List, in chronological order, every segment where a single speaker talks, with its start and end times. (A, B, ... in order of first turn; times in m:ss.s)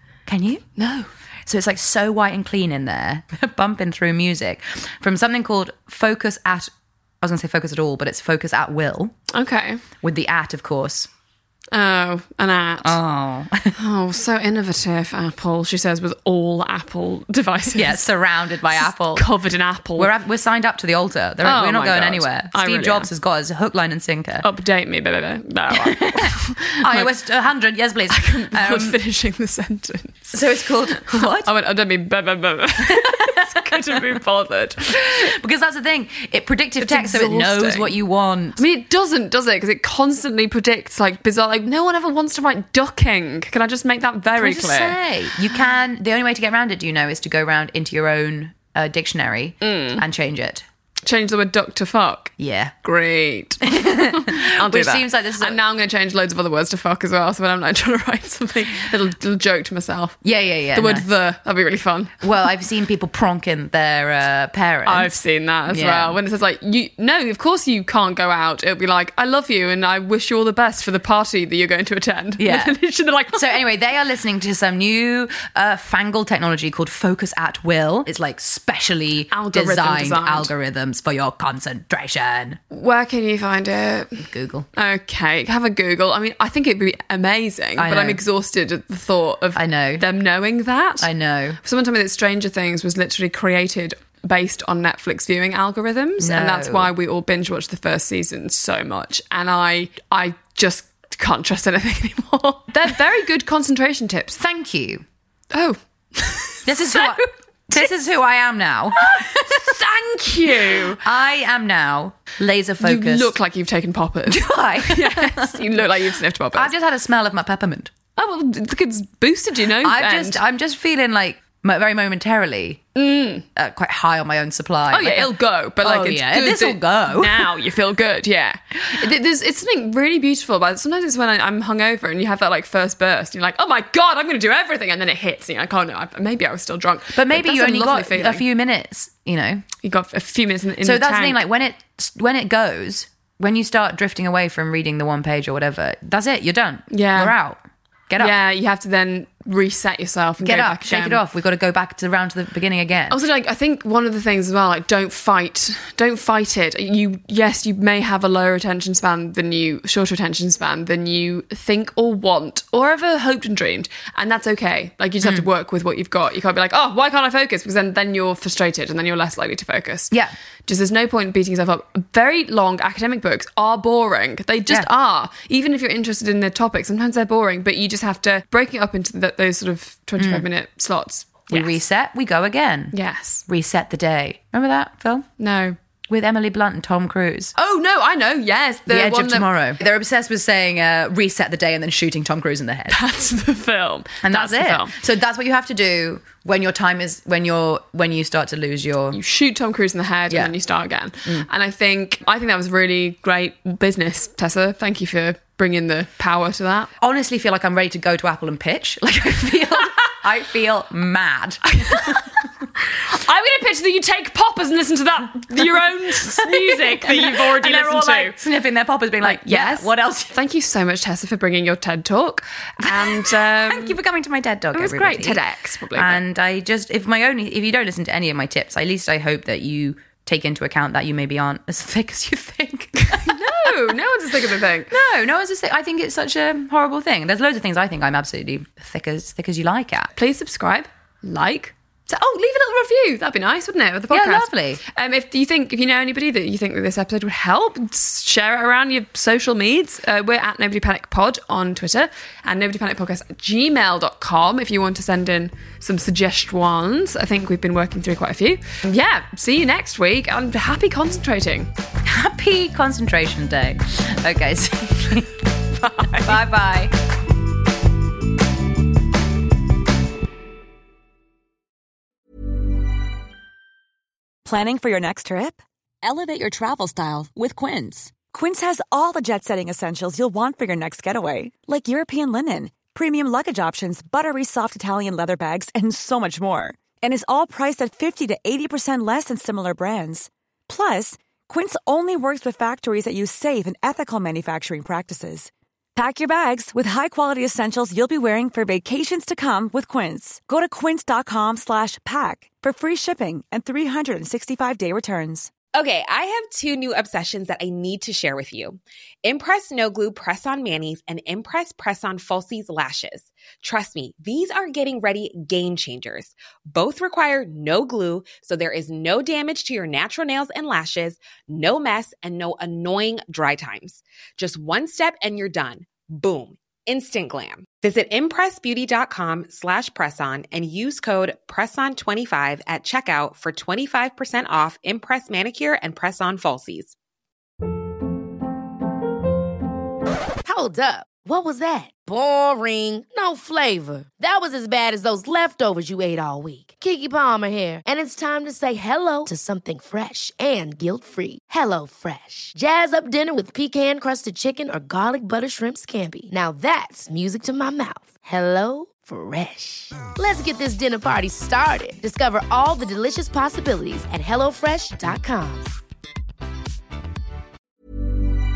0:00.3-0:00.6 A
0:00.8-0:01.1 B
0:01.5-0:09.2 A
0:09.3-0:09.8 B
0:10.0-0:11.1 A
0:11.7-0:13.0 B
0:12.8-0:13.8 A
0:13.8-0:18.1 B
0:17.8-0:19.2 A
0:18.7-0:20.1 B
0:20.0-0:24.4 A
0:21.4-0:23.1 B
0:24.4-0:27.1 B
0:25.7-0:29.0 A
0:28.1-0:30.3 B
0:30.3-0:31.5 A
0:31.1-0:35.0 B
0:32.9-0:33.4 A
0:34.9-0:38.6 A
0:36.8-0:37.9 B
0:38.6-0:45.0 B
0:44.4-0:50.6 A
0:49.6-0:50.0 B
0:51.0-1:02.5 B
0:52.4-0:52.7 A
0:53.7-0:55.6 A
1:00.2-1:01.0 A
1:02.2-1:05.2 A
1:04.9-1:13.6 B
1:05.7-1:06.2 A
1:12.4-1:12.7 A
1:13.3-1:22.6 A
1:19.3-1:20.5 B
1:22.7-1:31.1 B
1:24.2-1:24.7 A
1:27.8-1:28.2 A
1:29.6-1:30.0 A
1:31.0-1:31.6 A
1:31.6-1:44.4 B
1:36.2-1:36.9 A
1:44.4-1:45.0 A
1:45.5-1:47.2 B
1:46.6-1:49.7 A
1:49.0-1:51.0 B
1:51.0-1:53.3 A
1:52.8-1:56.7 B
1:54.3-1:55.8 A
1:56.6-1:57.9 A
1:58.2-2:00.4 B
1:59.8-2:02.8 A
2:03.0-2:03.5 B
2:03.6-2:05.3 A
2:04.9-2:18.4 B
2:05.8-2:07.5 A
2:17.2-2:19.7 A
2:19.8-2:21.4 B
2:20.8-2:28.4 A
2:26.9-2:27.4 B
2:28.2-2:31.2 B
2:30.4-2:33.2 A
2:33.1-2:50.2 B
2:50.7-3:01.8 B
3:00.2-3:00.5 A
3:01.5-3:03.0 A
3:02.9-3:03.4 B
3:03.5-3:05.3 A
3:05.4-3:05.8 B
3:06.1-3:07.5 A
3:07.6-3:09.5 B
3:08.9-3:13.0 A
3:12.9-3:15.0 B
3:14.2-3:19.2 A
3:19.1-3:26.9 B
3:27.0-3:32.3 A
3:31.7-3:32.3 B
3:32.9-3:38.4 B
3:36.2-3:40.3 A
3:39.2-3:44.0 B
3:42.8-3:45.4 A
3:44.7-3:46.2 B
3:46.0-3:53.9 A
3:53.1-3:54.9 B
3:54.9-4:00.1 A
4:00.2-4:21.7 B
4:04.1-4:04.8 A
4:22.1-4:25.4 A
4:25.8-4:26.4 B
4:26.1-4:26.9 A
4:34.4-5:05.5 C
5:05.7-5:37.0 D
5:40.4-6:05.7 E